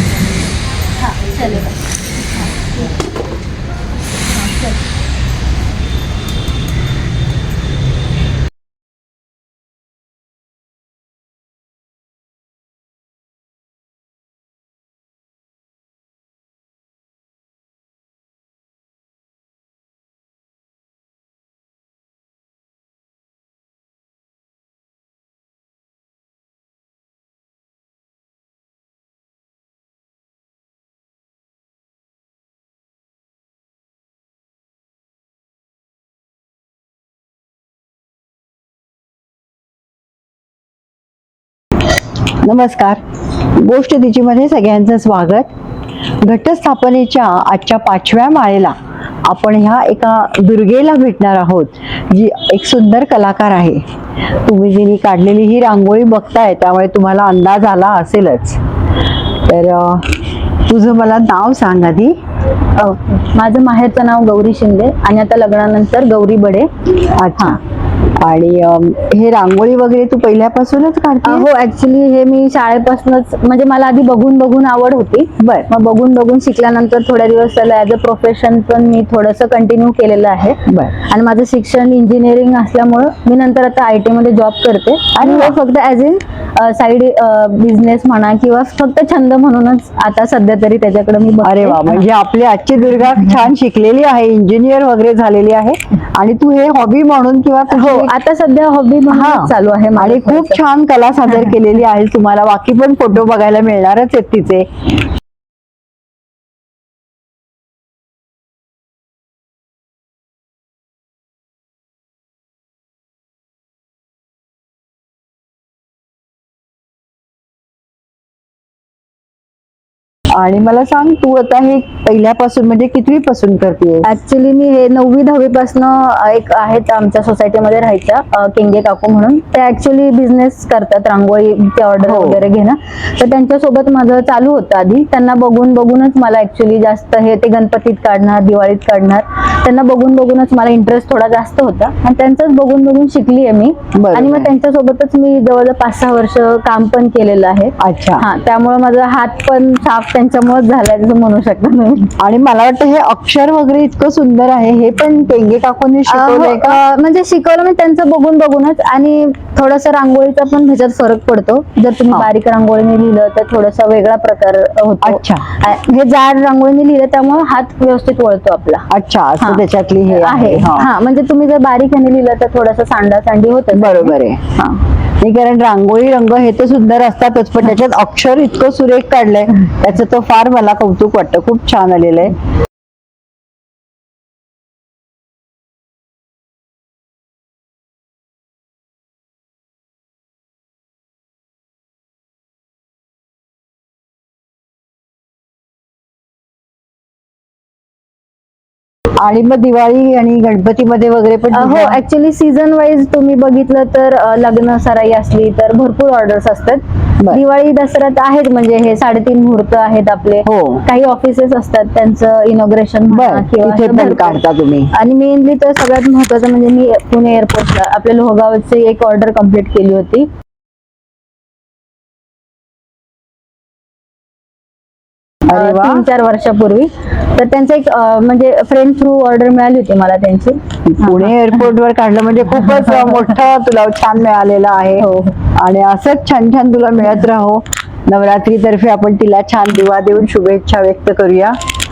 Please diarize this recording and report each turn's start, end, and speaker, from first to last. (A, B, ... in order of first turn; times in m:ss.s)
0:01.0-0:01.8 A
0:02.3-0:02.6 A
0:04.4-0:04.7 A
0:42.4-0:43.0 B
0:43.6-0:45.5 B
0:46.2-0:53.8 B
0:54.4-0:58.6 B
0:59.4-1:02.1 B
1:02.7-1:06.7 A
1:07.0-1:07.6 B
1:08.2-1:11.5 B
1:11.2-1:32.0 A
1:15.4-1:15.7 B
1:20.7-1:20.9 B
1:25.2-1:25.6 B
1:31.4-1:38.1 B
1:37.7-1:40.6 A
1:39.1-1:44.7 B
2:00.3-2:04.1 B
2:04.0-2:32.1 A
2:12.0-2:12.4 B
2:23.9-2:24.5 B
2:27.8-2:28.2 B
2:32.2-2:36.8 B
2:36.1-2:48.9 A
2:45.0-2:45.5 B
2:48.9-2:50.9 B
2:49.4-2:54.8 A
2:53.7-2:54.4 B
2:55.2-3:02.4 B
3:19.2-3:22.0 B
3:21.5-3:34.4 A
3:30.4-3:30.8 B
3:33.1-3:34.9 B
3:34.9-3:40.3 A
3:45.4-3:46.0 B
3:45.5-3:51.3 A
3:50.8-4:01.6 B
3:52.9-3:53.2 A
3:55.0-3:55.3 A